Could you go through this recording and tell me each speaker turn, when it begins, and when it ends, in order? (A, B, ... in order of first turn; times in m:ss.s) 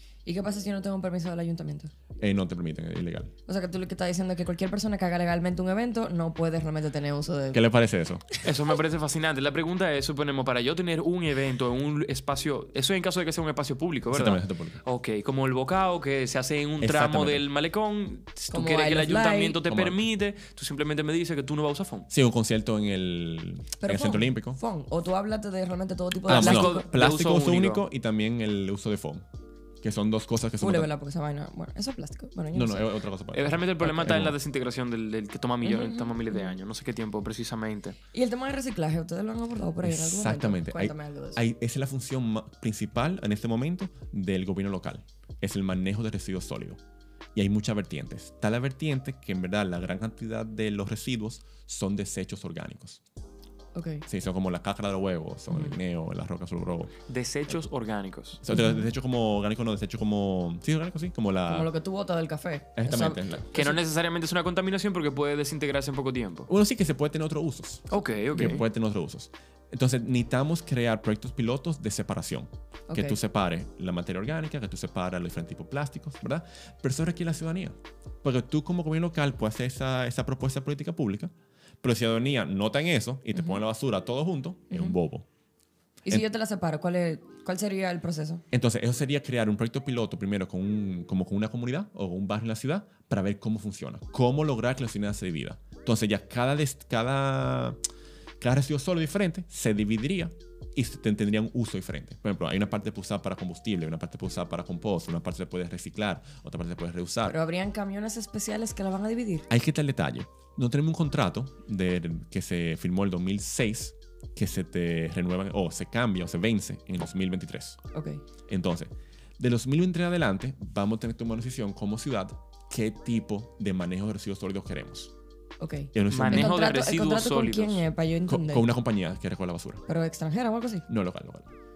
0:00.2-0:01.9 A
0:02.2-0:03.3 B
0:03.5-0:07.6 A
0:07.5-0:08.2 B
0:08.4-0:22.1 C
0:14.1-0:14.8 B
0:16.8-0:17.4 B
0:18.5-0:19.6 A
0:19.6-0:20.0 B
0:22.1-0:24.6 B
0:23.8-0:26.9 A
0:26.3-0:27.8 C
0:26.3-0:29.2 B
0:29.8-0:30.9 B
0:30.6-0:32.9 A
0:32.5-0:34.4 B
0:33.3-0:38.0 C
0:35.6-0:36.6 A
0:38.1-0:41.4 A
0:39.8-0:46.8 B
0:47.3-0:53.0 B
0:53.7-0:54.0 A
0:54.1-0:56.9 B
0:57.1-0:58.4 C
0:58.4-1:01.7 B
0:58.5-0:58.8 A
1:01.5-1:03.7 A
1:02.8-1:03.5 B
1:03.5-1:06.5 C
1:06.5-1:25.3 B
1:07.9-1:08.6 C
1:12.9-1:13.2 A
1:23.3-1:23.6 A
1:24.7-1:25.0 A
1:26.0-1:28.4 A
1:28.5-1:37.8 B
1:38.4-1:47.4 B
1:47.2-1:49.5 A
1:49.5-1:57.8 B
1:57.9-1:58.2 A
1:58.5-2:05.1 B
2:05.6-2:08.7 A
2:05.9-2:06.6 B
2:06.1-2:07.8 C
2:08.3-2:09.8 B
2:09.9-2:10.9 A
2:10.9-2:11.5 B